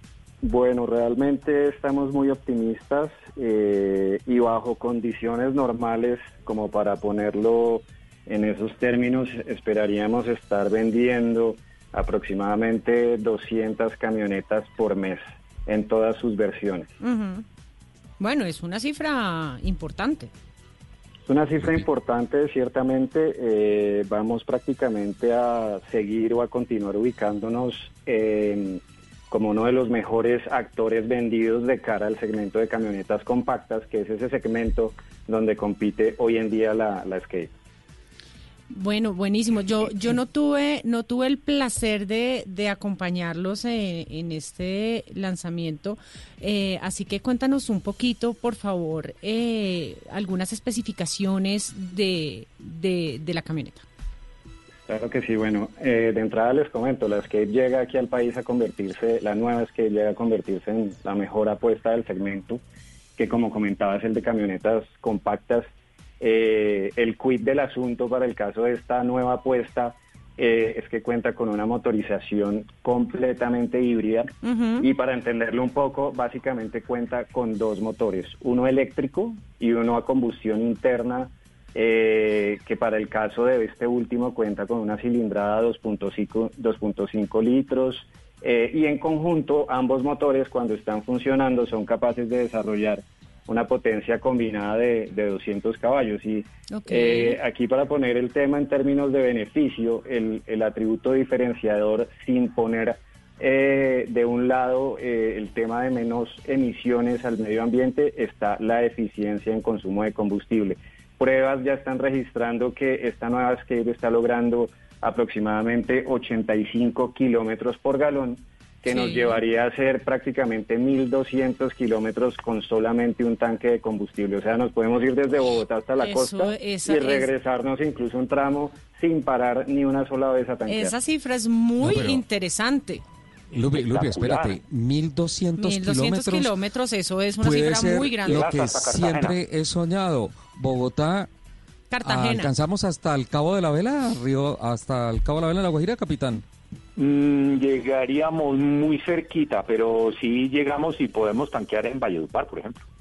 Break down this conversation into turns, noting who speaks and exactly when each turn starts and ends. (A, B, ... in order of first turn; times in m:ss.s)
0:00.4-0:16.9 A
0:17.0-0:17.4 B
0:18.2-0:20.3 B
0:21.3-0:28.8 A
0:29.3-0:37.5 A
0:38.7-0:53.8 B
0:54.9-1:02.6 A
1:03.2-1:05.7 A
1:06.2-2:10.9 A
1:14.4-1:14.8 B
1:36.7-1:37.4 B
1:58.8-1:59.4 B
2:05.4-2:07.3 B
2:10.7-2:13.0 B
2:11.8-2:12.2 C
2:13.5-2:16.5 C
2:13.5-2:14.6 D
2:15.6-2:18.4 B
2:17.4-2:21.3 C
2:18.2-2:19.4 D
2:21.9-2:22.5 B
2:22.0-2:26.4 C
2:27.0-2:32.8 D